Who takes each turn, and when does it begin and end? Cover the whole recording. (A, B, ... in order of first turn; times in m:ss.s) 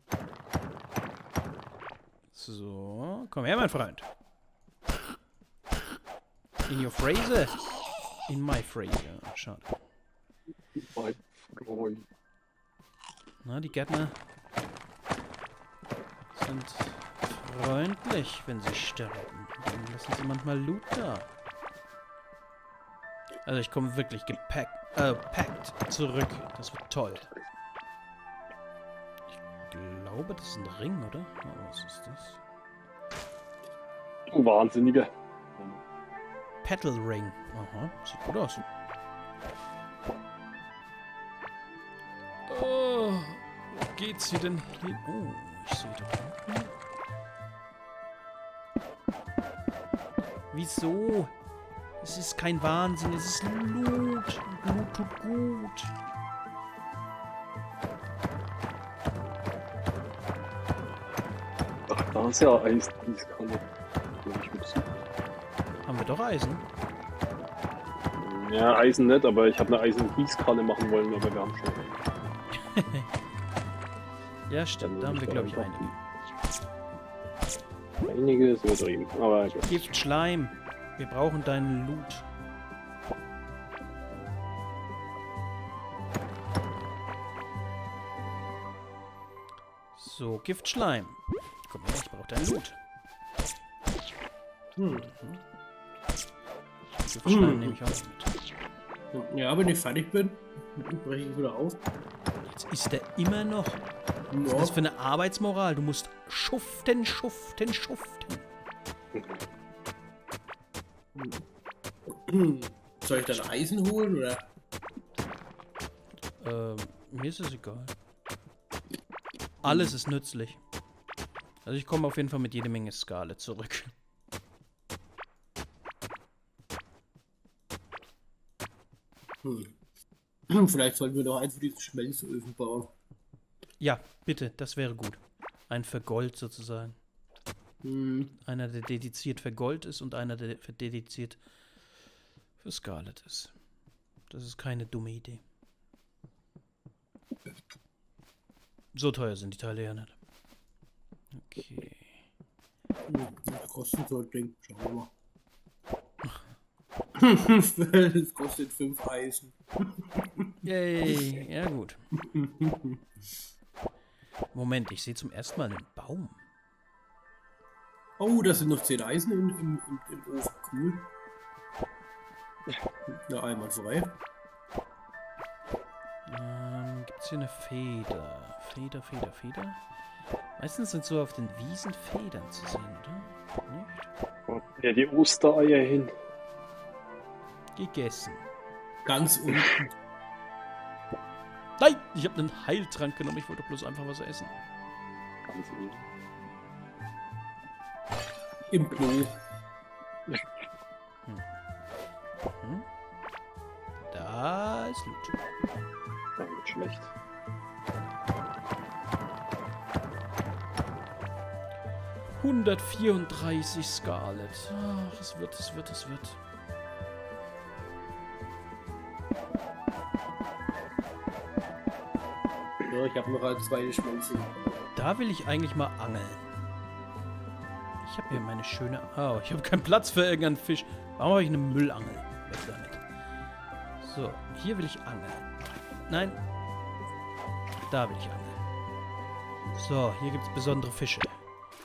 0:02.3-0:04.1 A
0:06.7-0:07.6 A
0:08.3-0:09.7 A
0:10.8-0:12.0 B
0:13.4-0:14.2 A
0:16.3-0:21.3 A
0:23.5-0:27.3 A
0:29.7-0:32.4 A
0:34.3-0:35.8 B
0:36.6-0:38.6 A
0:42.5-0:46.7 A
0:50.5-0:51.3 A
0:52.0-0:55.9 A
1:01.9-1:03.6 B
1:04.2-1:05.0 B
1:05.9-1:06.6 A
1:08.1-1:12.0 B
1:12.5-1:13.1 A
1:14.5-1:16.0 A
1:14.8-1:15.9 B
1:18.0-1:19.9 B
1:19.7-1:22.2 A
1:30.0-1:32.8 A
1:34.8-1:35.1 C
1:35.1-1:35.4 A
1:37.1-1:38.3 A
1:37.3-1:37.8 C
1:39.1-1:41.8 C
1:42.5-1:43.8 A
1:44.3-1:44.8 C
1:44.4-1:48.4 A
1:49.1-1:49.4 B
1:51.2-1:51.4 C
1:52.1-1:54.4 C
1:56.4-1:57.9 A
1:59.6-2:00.6 A
1:59.7-2:00.0 C
2:01.6-2:03.9 A
2:09.4-2:09.7 C
2:10.5-2:12.9 C
2:13.8-2:17.0 A
2:17.8-2:18.3 C
2:18.4-2:21.4 A
2:22.6-2:23.5 A
2:24.3-2:25.4 A
2:28.9-2:30.2 A
2:31.4-2:32.2 A
2:33.1-2:35.1 C
2:37.2-2:40.5 C
2:40.6-2:42.0 A
2:42.2-2:43.0 C
2:44.5-2:46.4 A
2:48.2-2:51.1 C
2:53.3-2:54.2 C
2:56.3-2:59.8 A
3:00.6-3:04.1 A
3:04.5-3:06.1 B
3:07.8-3:08.4 A
3:09.0-3:09.9 C
3:11.8-3:14.5 A
3:15.5-3:16.1 B
3:18.7-3:19.4 C
3:22.5-3:22.9 A
3:24.1-3:25.4 A
3:26.4-3:27.1 B
3:32.4-3:36.4 A
3:42.9-3:44.7 C
3:45.0-3:46.5 A
3:48.0-3:53.0 A
3:54.0-3:55.5 A
3:56.1-3:56.4 A
3:57.9-3:58.6 A
3:59.8-4:01.4 A